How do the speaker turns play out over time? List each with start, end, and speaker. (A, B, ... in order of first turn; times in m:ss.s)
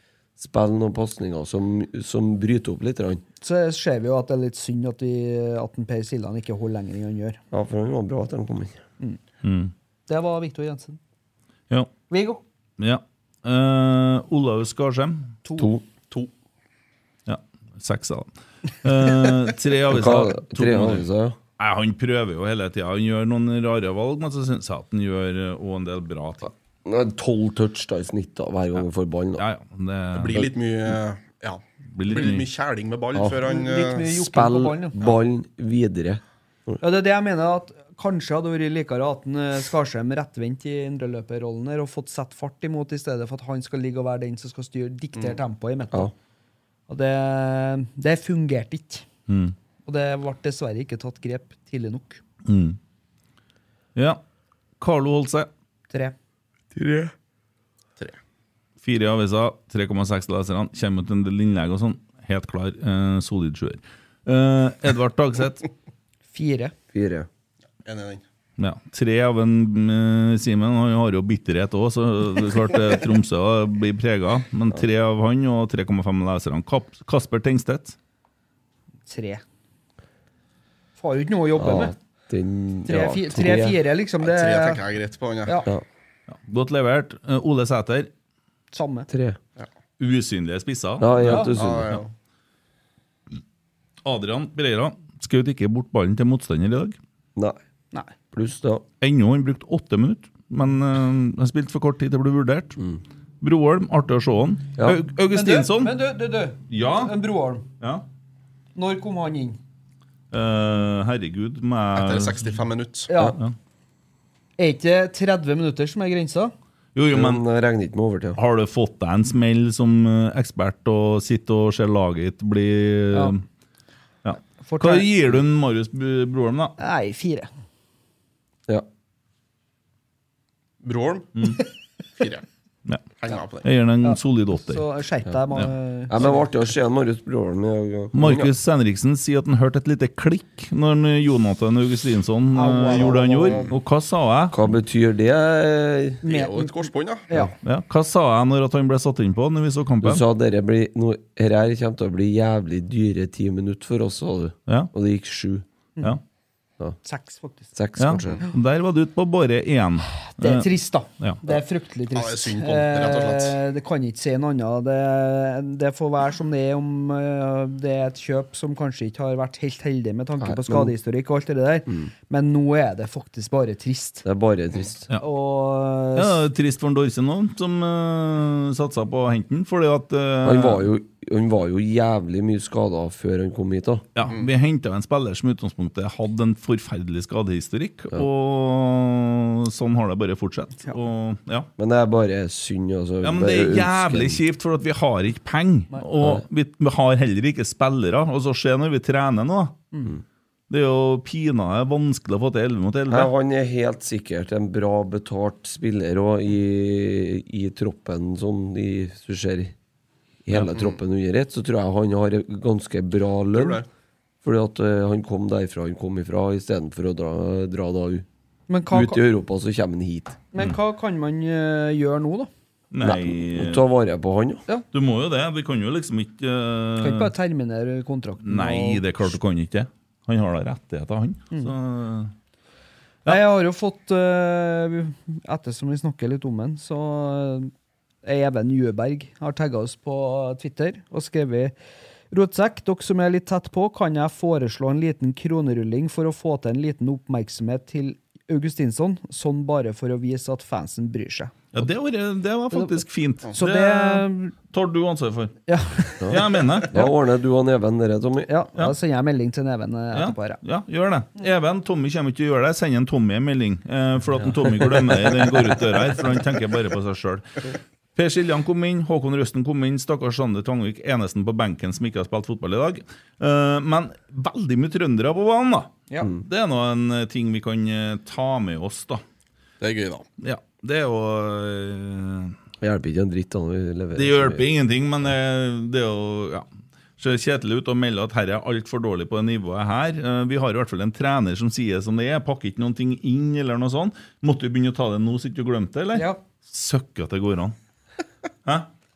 0:00.4-0:03.2 A
0:03.4-0:07.4 B
0:07.5-0:08.8 A
0:09.4-0:09.7 C
0:10.1-0:11.0 B
0:12.1-0:12.4 B
0:12.8-0:15.3 C
0:15.6-0:15.8 A
0:17.3-0:21.1 C
0:19.9-0:21.4 A
0:21.6-0:26.5 C
0:26.8-0:29.4 A
0:29.4-0:30.5 C
0:30.1-0:34.2 D
0:31.9-0:32.5 C
0:33.2-0:33.4 A
0:33.4-0:35.0 B
0:34.1-0:36.8 A
0:36.8-0:46.1 B
0:46.9-0:49.1 B
0:49.3-0:49.6 C
0:49.9-0:52.2 B
0:52.5-0:52.8 C
0:54.8-0:55.5 C
0:55.9-0:56.2 B
0:56.8-0:57.1 A
0:58.8-1:05.7 C
1:06.3-1:06.7 B
1:06.9-1:07.3 A
1:07.8-1:08.2 D
1:08.6-1:18.0 C
1:19.1-1:19.4 B
1:21.0-1:21.9 B
1:21.6-1:23.8 A
1:22.9-1:24.8 B
1:24.2-1:25.7 D
1:26.3-1:28.1 C
1:28.7-1:29.1 B
1:29.1-1:29.4 A
1:30.0-1:32.0 C
1:31.0-1:32.0 A
1:31.2-1:31.6 B
1:31.5-1:32.1 D
1:34.0-1:37.0 C
1:38.3-1:38.8 A
1:39.0-1:42.8 C
1:43.4-1:46.0 C
1:45.3-1:47.7 B
1:46.7-1:47.2 C
1:47.8-1:48.0 C
1:48.8-1:49.6 B
1:50.3-1:52.6 C
1:52.0-1:53.1 D
1:53.1-1:53.4 B
1:54.6-1:56.5 B
1:57.0-1:57.4 C
1:57.1-1:58.4 A
1:58.4-2:03.4 C
2:03.1-2:03.4 B
2:04.2-2:06.8 C
2:04.6-2:05.1 B
2:06.8-2:07.5 B
2:10.8-2:11.6 D
2:12.2-2:12.4 D
2:13.2-2:13.7 D
2:13.6-2:14.8 C
2:14.0-2:16.4 B
2:16.1-2:18.5 A
2:18.1-2:24.6 C
2:22.5-2:23.6 B
2:22.9-2:23.6 D
2:24.5-2:26.2 A
2:26.2-2:27.5 B
2:26.2-2:27.3 D
2:27.6-2:30.2 C
2:30.0-2:35.6 A
2:37.0-2:37.7 B
2:37.7-2:38.4 A
2:38.0-2:41.4 C
2:40.2-2:54.3 B
2:42.1-2:43.6 D
2:50.4-2:50.9 A
2:54.2-2:55.1 A
2:55.2-2:56.4 B
2:56.2-3:00.9 C
3:00.4-3:04.1 A
3:04.2-3:11.7 C
3:11.8-3:14.4 A
3:13.2-3:19.9 C
3:16.2-3:16.4 A
3:20.7-3:23.3 C
3:23.1-3:29.7 A
3:30.4-3:33.8 A
3:30.7-3:31.0 D
3:33.5-3:33.9 D
3:34.4-3:38.3 A
3:38.7-3:39.2 B
3:38.9-3:40.4 A
3:40.5-3:42.5 B
3:42.9-3:43.8 C
3:43.0-3:44.6 A
3:44.9-3:47.3 C
3:47.0-3:49.0 B
3:48.4-3:52.3 C
3:53.2-3:57.7 B
3:58.2-4:01.7 B
4:02.3-4:11.7 B
4:11.7-4:17.0 C
4:12.7-4:13.0 B
4:13.5-4:14.6 B
4:15.7-4:17.1 B
4:16.2-4:18.5 A
4:18.5-4:20.6 B
4:20.1-4:39.2 C
4:39.8-4:40.3 D
4:40.4-4:42.6 C
4:42.8-4:44.6 A
4:44.2-4:46.7 C
4:47.2-4:57.8 C
4:56.1-4:56.4 B